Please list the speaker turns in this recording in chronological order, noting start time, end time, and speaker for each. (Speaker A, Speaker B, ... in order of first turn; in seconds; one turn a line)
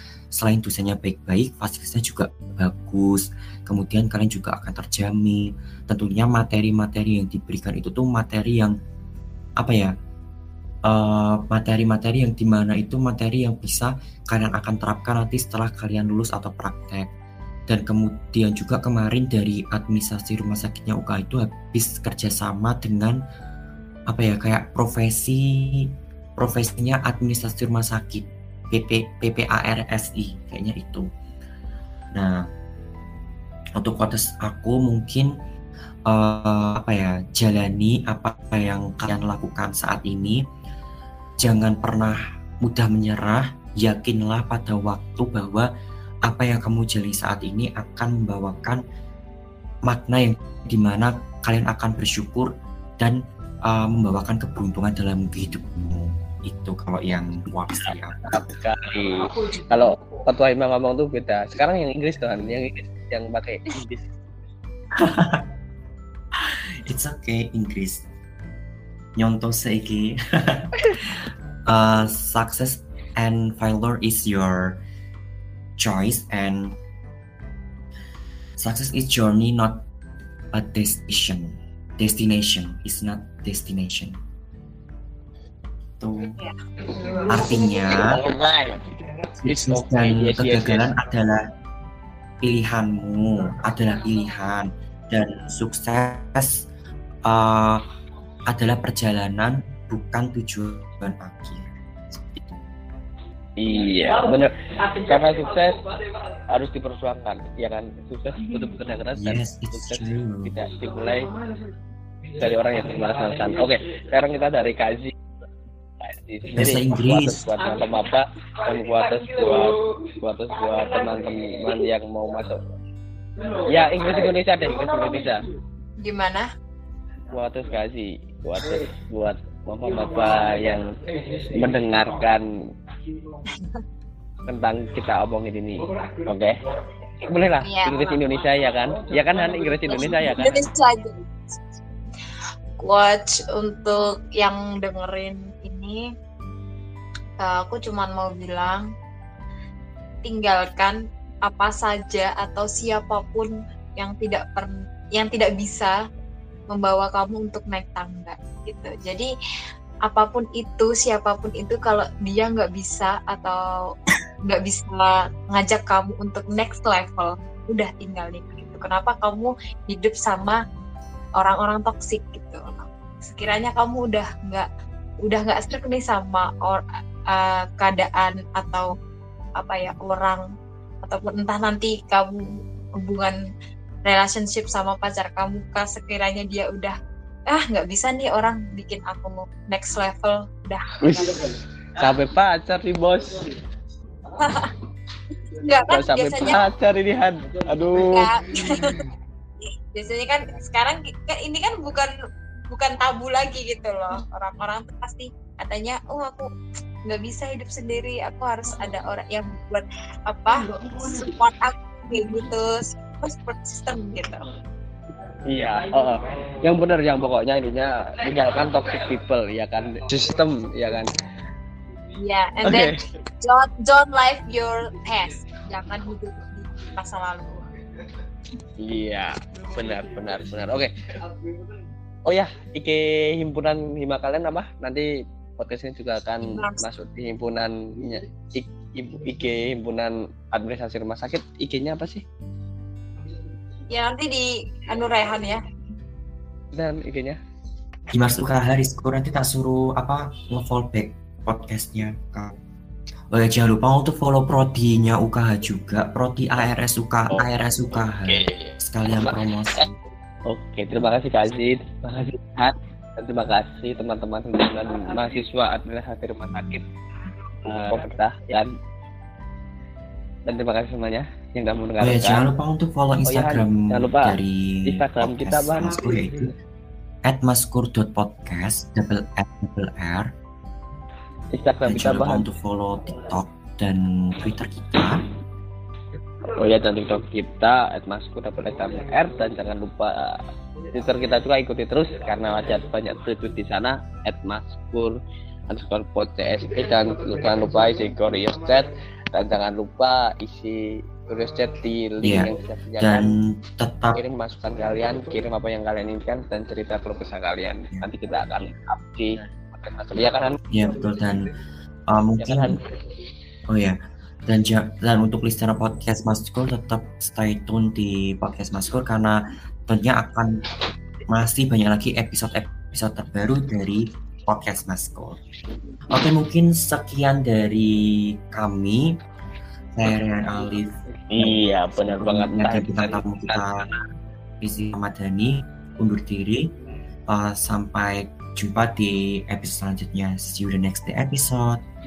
Speaker A: 0.3-8.7
Speaker A: 9.6-9.9
Speaker A: 10.9-17.1
Speaker A: 17.7-23.2
Speaker A: 24.1-25.9
Speaker A: 26.4-31.1
Speaker A: 32.1-32.4
Speaker A: 33.8-35.3
Speaker A: 36.1-40.4
Speaker A: 41.4-45.7
Speaker A: 46.2-48.8
Speaker A: 49.9-58.5
Speaker B: 58.3-64.0
Speaker A: 65.0-65.4
Speaker A: 66.4-68.0
Speaker A: 69.2-74.8
Speaker A: 75.8-76.8
Speaker A: 78.6-79.8
Speaker A: 80.5-84.2
Speaker A: 86.0-86.4
Speaker A: 87.2-88.2
Speaker B: 88.1-88.8
Speaker A: 89.4-91.4
Speaker B: 89.5-90.9
Speaker A: 92.4-96.7
Speaker A: 97.3-97.8
Speaker A: 98.5-102.7
Speaker B: 103.6-105.8
Speaker B: 106.5-111.3
Speaker A: 109.2-110.5
Speaker B: 112.4-115.1
Speaker B: 116.0-122.6
Speaker A: 116.5-117.5
Speaker B: 123.7-125.4
Speaker C: 126.0-126.5
Speaker B: 127.3-130.9
Speaker B: 131.5-132.5
Speaker C: 133.5-133.8
Speaker B: 134.5-136.6
Speaker B: 137.2-140.7
Speaker C: 137.6-138.1
Speaker C: 139.9-141.8
Speaker C: 142.8-146.1
Speaker C: 147.4-148.9
Speaker C: 150.2-156.0
Speaker C: 156.7-159.3
Speaker C: 160.1-163.9
Speaker C: 164.4-170.6
Speaker C: 171.4-174.7
Speaker C: 175.2-178.9
Speaker C: 179.6-180.4
Speaker C: 181.0-183.4
Speaker C: 184.0-187.0
Speaker C: 187.5-191.4
Speaker B: 191.0-193.6
Speaker C: 194.4-194.7
Speaker C: 195.5-196.6
Speaker B: 195.9-198.8
Speaker C: 197.9-199.0
Speaker C: 199.9-202.1
Speaker C: 202.7-206.5
Speaker C: 207.1-214.4
Speaker B: 215.5-221.1
Speaker C: 222.1-227.5
Speaker B: 222.6-223.0
Speaker B: 228.8-230.9
Speaker B: 232.2-242.2
Speaker C: 236.4-236.8
Speaker C: 243.9-245.6
Speaker B: 246.7-247.4
Speaker A: 248.1-252.5
Speaker A: 253.3-260.0
Speaker B: 258.2-258.7
Speaker B: 260.5-266.9
Speaker B: 267.6-268.7
Speaker B: 270.5-272.5
Speaker A: 272.0-276.5
Speaker B: 273.3-276.1
Speaker A: 277.2-280.3
Speaker B: 281.5-282.4
Speaker A: 281.9-285.2
Speaker B: 286.6-290.4
Speaker B: 290.9-303.3
Speaker A: 302.2-304.2
Speaker B: 304.1-310.6
Speaker A: 310.7-311.5
Speaker A: 312.1-312.8
Speaker B: 312.4-312.7
Speaker A: 313.7-320.6
Speaker A: 321.3-325.4
Speaker A: 326.1-329.2
Speaker A: 329.9-333.9
Speaker B: 331.3-333.2
Speaker A: 334.6-336.7
Speaker A: 337.3-341.8